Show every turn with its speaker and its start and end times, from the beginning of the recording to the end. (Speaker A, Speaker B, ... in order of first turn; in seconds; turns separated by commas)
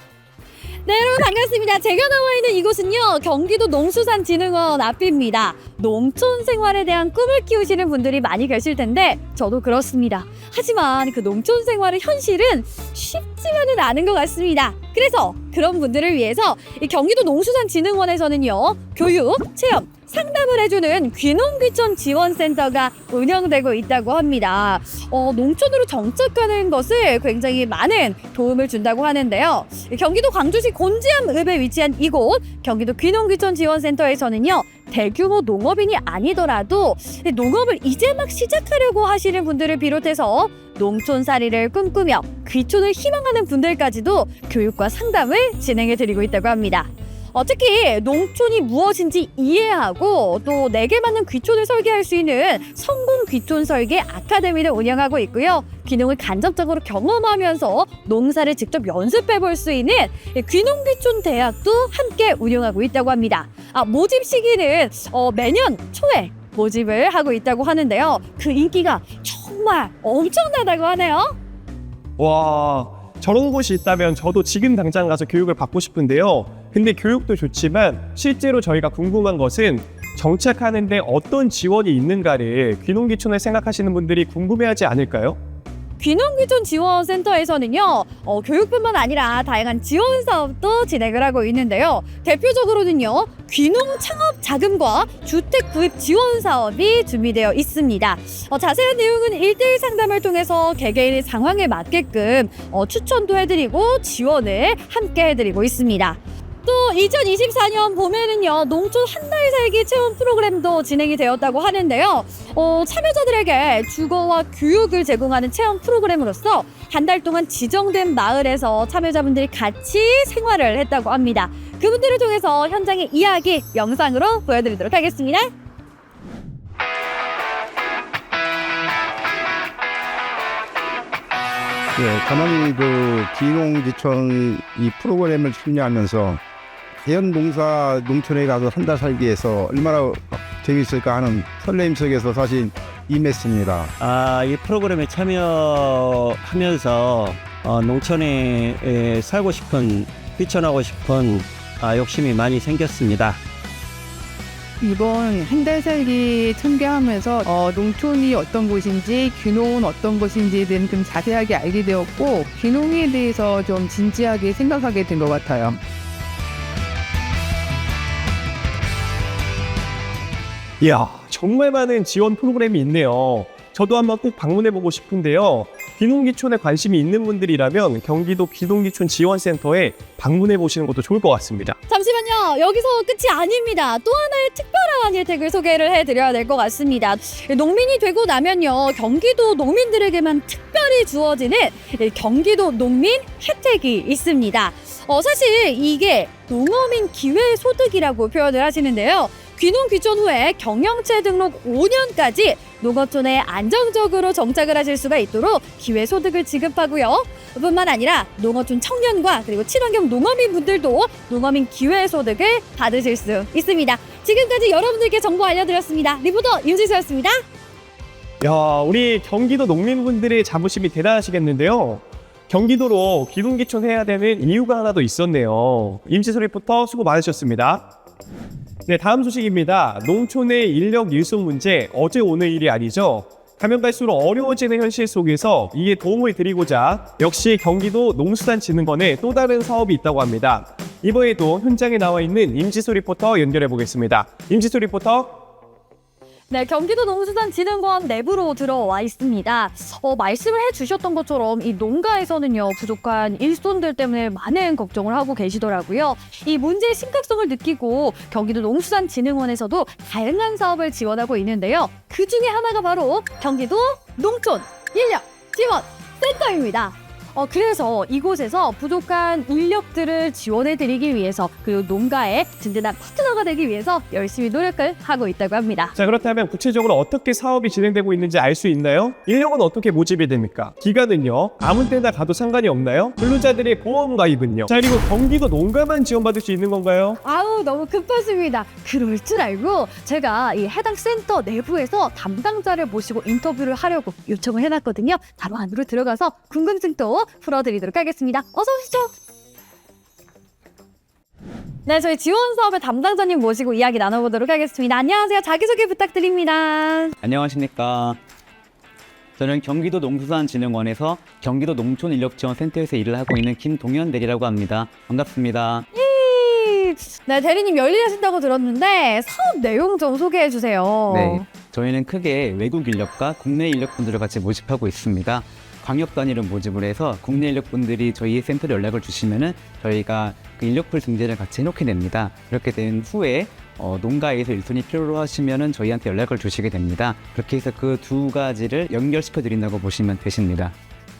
Speaker A: 0.8-71.3, Speaker B: 72.2-85.4, Speaker A: 86.0-125.5, Speaker C: 131.9-136.4, Speaker C: 137.0-143.9, Speaker D: 144.0-153.4, Speaker E: 154.8-165.7, Speaker B: 170.8-181.8, Speaker A: 181.9-217.4, Speaker B: 218.4-227.9, Speaker B: 228.9-245.4, Speaker A: 246.5-275.9, Speaker B: 275.9-287.2, Speaker A: 287.2-299.1, Speaker A: 301.9-307.1, Speaker F: 307.2-308.2, Speaker F: 309.4-315.9, Speaker A: 315.9-321.4, Speaker F: 321.1-340.7